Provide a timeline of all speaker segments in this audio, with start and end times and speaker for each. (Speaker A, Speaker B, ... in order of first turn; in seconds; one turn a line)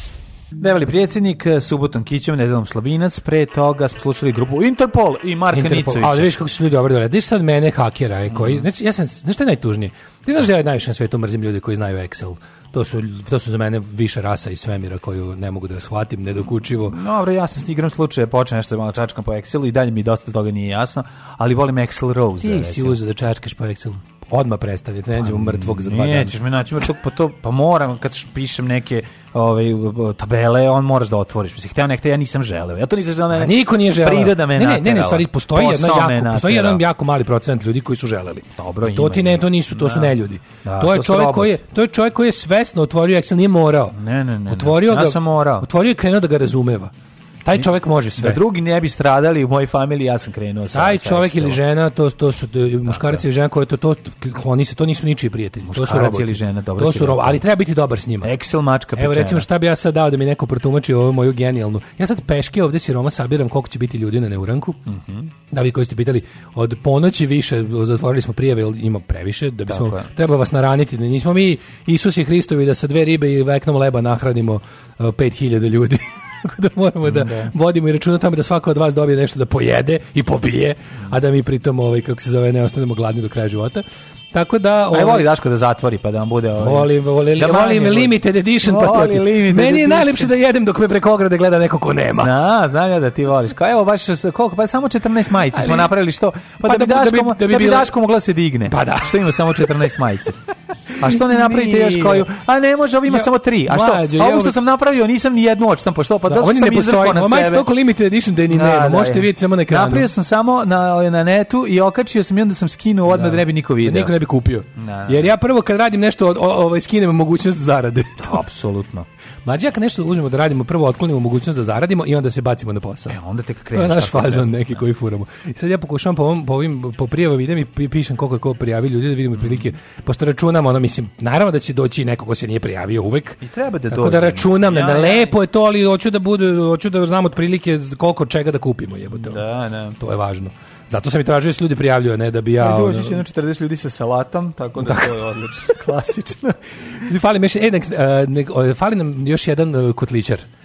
Speaker A: 0.6-6.3
Speaker B: 5.5-17.0
Speaker A: 8.3-8.7
Speaker A: 16.8-23.0
Speaker B: 22.4-26.4
Speaker A: 25.2-36.8
Speaker B: 33.3-44.0
Speaker A: 38.6-41.6
Speaker A: 43.9-45.7
Speaker B: 44.5-46.9
Speaker B: 47.4-48.4
Speaker A: 47.5-51.6
Speaker B: 50.7-58.3
Speaker A: 52.9-53.2
Speaker A: 55.6-57.4
Speaker A: 58.2-59.5
Speaker B: 59.0-64.8
Speaker A: 64.9-65.3
Speaker B: 65.5-85.3
Speaker A: 69.7-70.1
Speaker A: 77.0-77.5
Speaker A: 84.9-90.3
Speaker B: 86.6-92.3
Speaker A: 92.2-100.4
Speaker B: 95.5-95.9
Speaker B: 96.6-97.9
Speaker B: 98.7-99.1
Speaker A: 101.0-107.7
Speaker B: 101.1-102.3
Speaker B: 103.1-104.6
Speaker B: 106.3-110.1
Speaker A: 108.5-114.1
Speaker B: 113.1-118.4
Speaker A: 114.8-115.3
Speaker A: 118.2-119.1
Speaker B: 119.5-123.2
Speaker A: 123.1-124.8
Speaker B: 123.7-139.4
Speaker A: 129.4-129.7
Speaker A: 133.4-135.3
Speaker A: 139.1-140.0
Speaker B: 140.0-143.2
Speaker A: 142.6-146.6
Speaker B: 144.8-145.1
Speaker B: 147.0-150.4